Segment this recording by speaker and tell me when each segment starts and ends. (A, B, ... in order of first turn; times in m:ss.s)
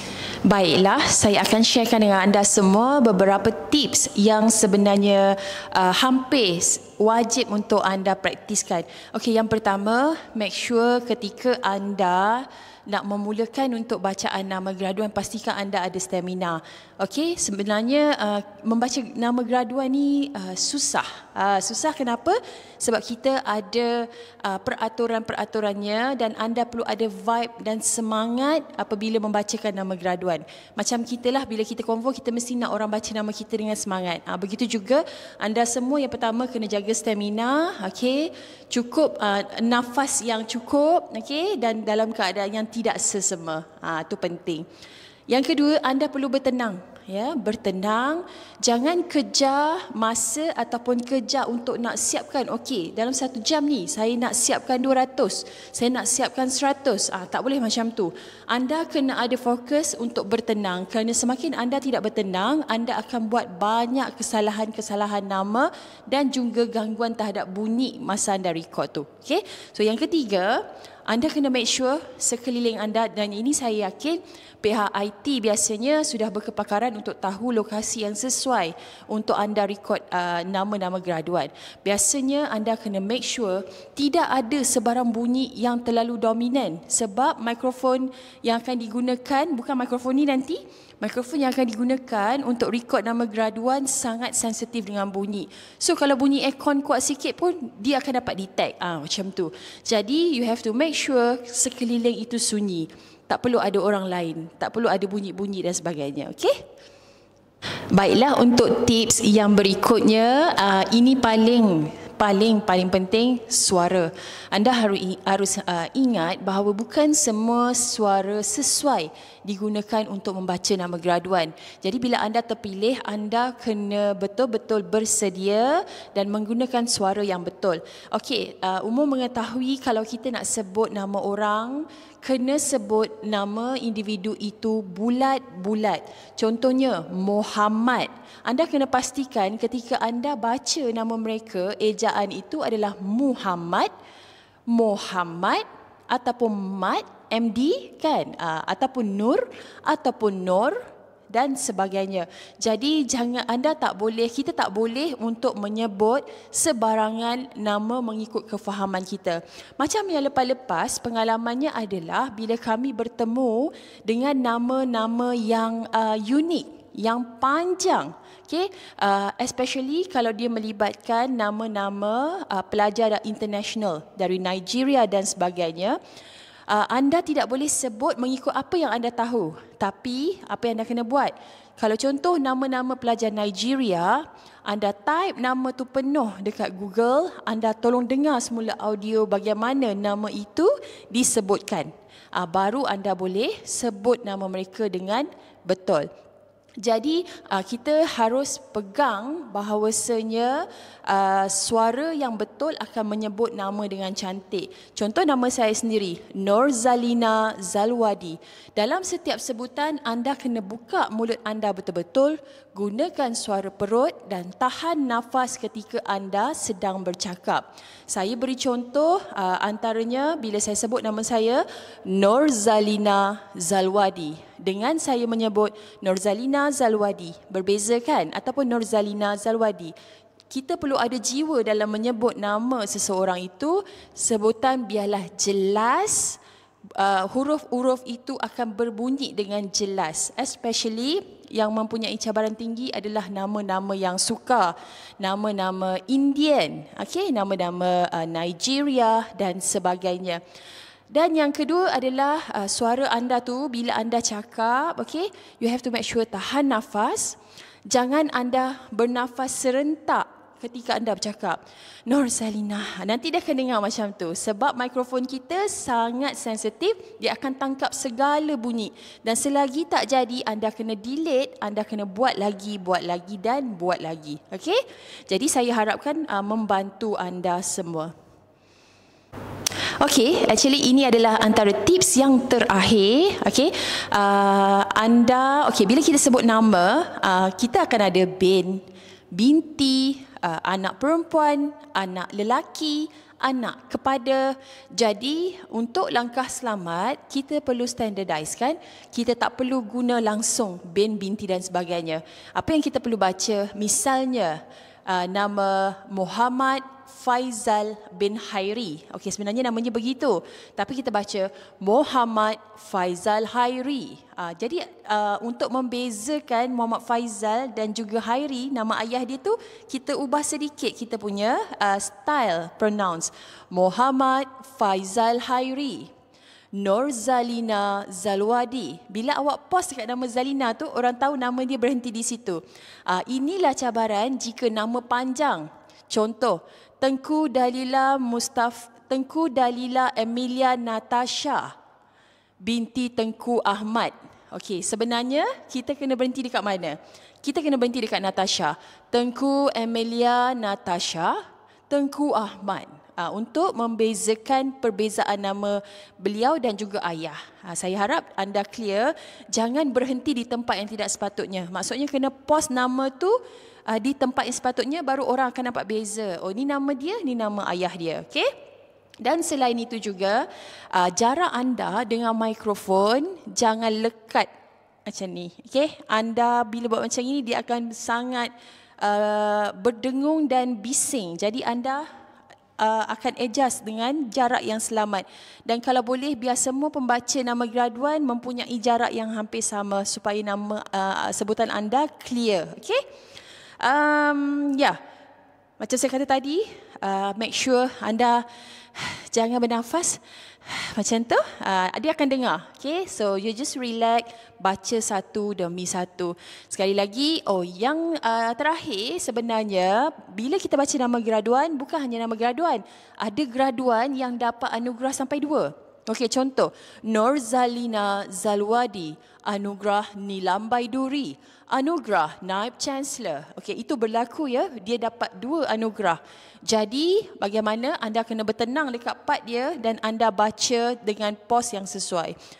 0:00.4-0:44.6 A
0:45.3-1:46.6 A
1:47.9-2:23.9 A
2:24.7-2:30.8 A
2:31.3-2:56.0 A
2:56.7-3:16.1 A
3:16.8-3:49.9 A
3:50.5-3:56.4 A
3:57.0-4:10.4 A
4:11.1-4:38.1 A
4:40.0-5:26.1 A
5:26.8-5:41.7 A
5:42.6-5:51.4 A
5:51.9-6:08.5 A
6:09.2-6:14.5 A
6:15.0-6:22.0 A
6:22.8-6:33.0 A
6:33.8-6:35.0 A
6:35.8-7:12.4 A